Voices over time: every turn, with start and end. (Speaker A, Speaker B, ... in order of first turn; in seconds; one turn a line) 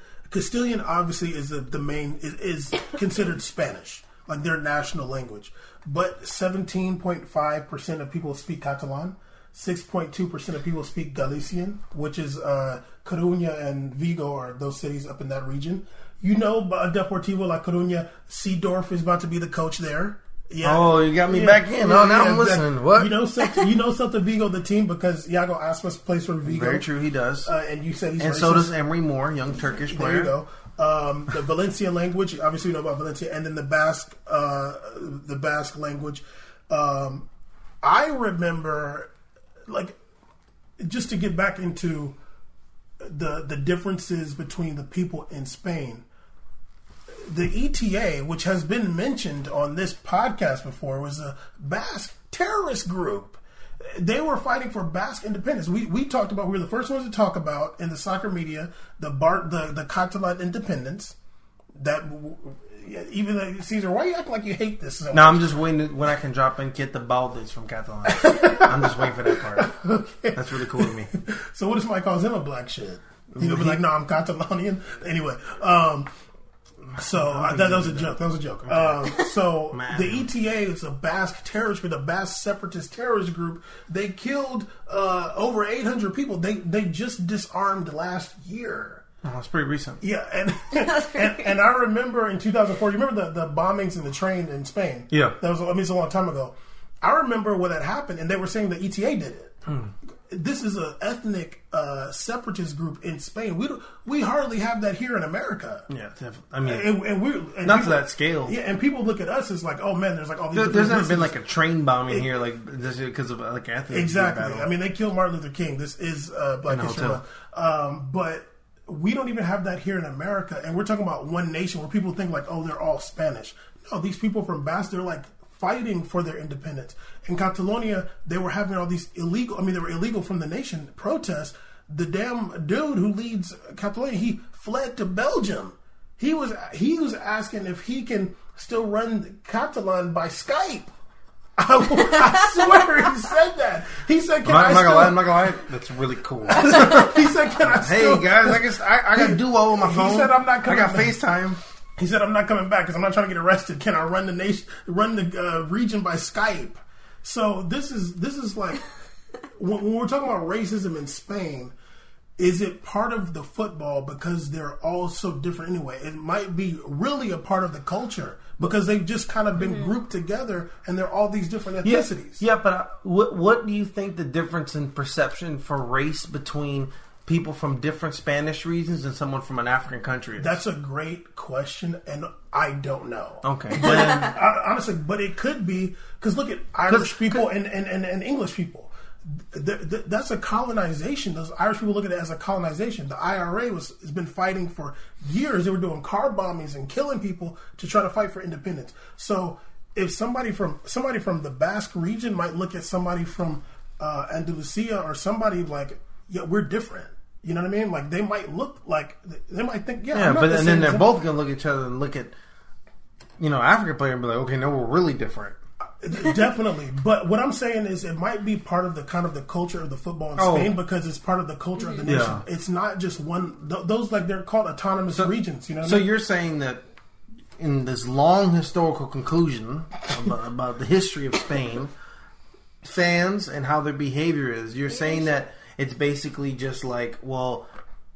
Speaker A: 0.3-26.9
Speaker B: 20.6-23.1
Speaker B: 26.4-27.5
Speaker A: 27.4-28.8
Speaker B: 28.2-30.3
Speaker A: 29.9-37.3
Speaker A: 37.8-39.1
Speaker A: 39.7-40.0
Speaker A: 40.8-42.2
Speaker A: 43.0-46.0
Speaker A: 47.2-61.1
Speaker A: 61.8-65.5
Speaker B: 65.1-69.8
Speaker A: 68.0-76.1
Speaker B: 70.3-71.1
Speaker B: 73.3-73.8
Speaker B: 76.9-79.1
Speaker A: 77.0-89.0
Speaker B: 79.7-80.2
Speaker B: 89.2-90.0
Speaker A: 90.0-99.5
Speaker B: 95.1-95.3
Speaker B: 99.7-99.9
Speaker A: 100.3-105.9
Speaker B: 105.9-106.9
Speaker A: 106.6-111.3
Speaker B: 107.6-108.5
Speaker B: 110.5-114.7
Speaker A: 113.9-140.9
Speaker B: 116.7-117.2
Speaker A: 141.6-145.4
Speaker B: 144.4-147.2
Speaker A: 146.5-151.2
Speaker B: 147.7-151.6
Speaker A: 152.0-158.8
Speaker A: 159.6-161.7
Speaker A: 162.4-172.4
Speaker B: 171.8-180.6
Speaker A: 180.4-211.2
Speaker B: 183.4-184.3
Speaker B: 186.9-187.4
Speaker B: 210.1-212.3
Speaker B: 213.4-215.6
Speaker A: 216.0-226.1
Speaker B: 220.4-220.7
Speaker B: 222.0-222.4
Speaker B: 225.1-226.8
Speaker B: 227.6-231.9
Speaker B: 232.8-237.7